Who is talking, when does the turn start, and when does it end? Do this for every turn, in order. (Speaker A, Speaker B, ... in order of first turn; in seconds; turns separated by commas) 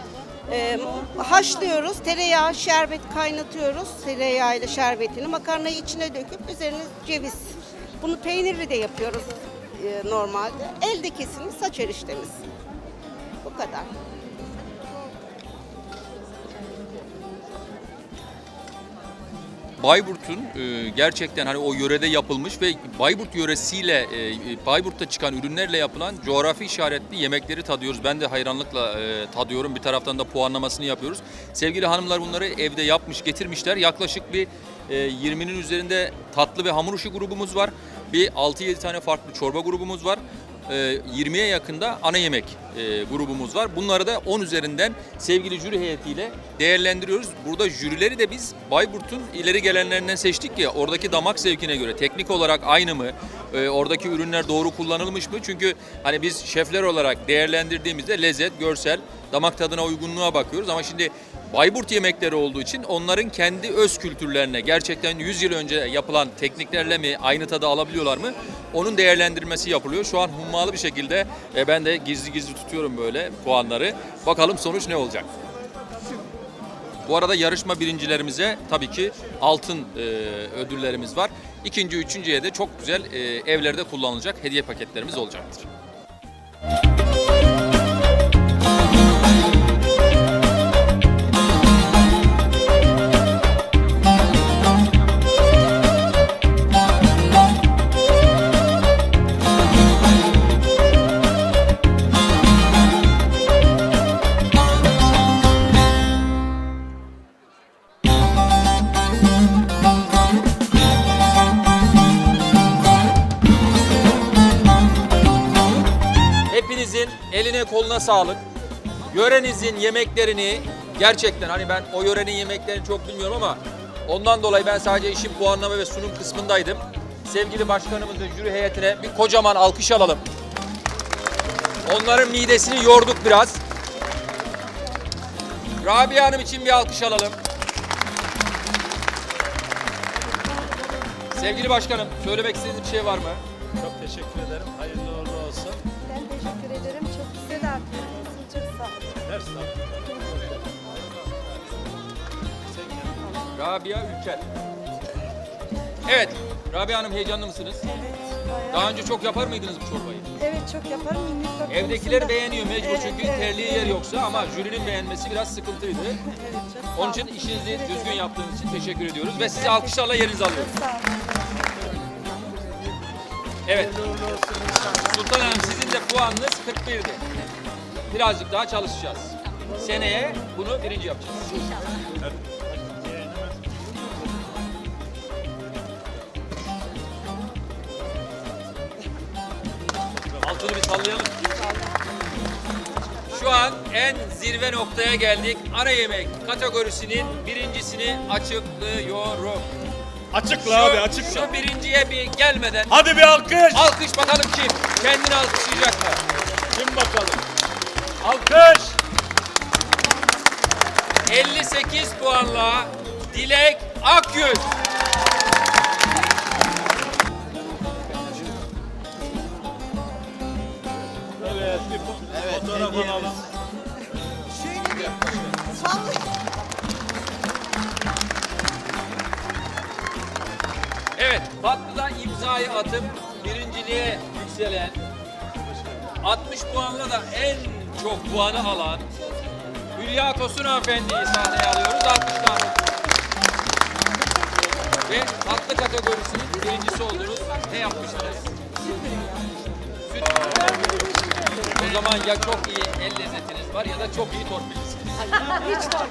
Speaker A: 0.5-12.4, Speaker A: 13.4-13.9, Speaker B: 19.8-75.3, Speaker B: 77.0-85.7, Speaker B: 116.5-118.4, Speaker B: 119.1-130.2, Speaker B: 131.8-133.6, Speaker B: 135.8-137.4, Speaker B: 141.3-143.4, Speaker C: 143.8-145.8, Speaker D: 146.1-149.2, Speaker C: 149.3-150.4, Speaker C: 152.7-153.2, Speaker B: 153.5-154.4, Speaker B: 156.1-157.8, Speaker D: 157.9-158.8, Speaker B: 158.7-160.3, Speaker D: 160.4-164.0, Speaker B: 161.7-166.2, Speaker D: 166.2-168.2, Speaker B: 166.9-170.7, Speaker D: 169.6-170.0, Speaker D: 170.8-171.1, Speaker B: 173.7-174.0, Speaker B: 175.0-177.2, Speaker B: 178.1-181.6, Speaker C: 182.7-183.5, Speaker B: 190.4-191.3, Speaker B: 193.3-199.7, Speaker C: 200.3-201.6, Speaker B: 200.4-203.1, Speaker C: 202.9-203.9, Speaker B: 203.7-206.2, Speaker C: 206.7-207.4, Speaker B: 208.2-208.6, Speaker C: 208.2-208.9, Speaker B: 211.2-214.7, Speaker C: 221.5-223.4, Speaker B: 231.2-235.0, Speaker B: 236.2-239.1, Speaker B: 239.9-242.7, Speaker B: 245.1-248.5, Speaker B: 250.1-250.9, Speaker B: 251.7-255.7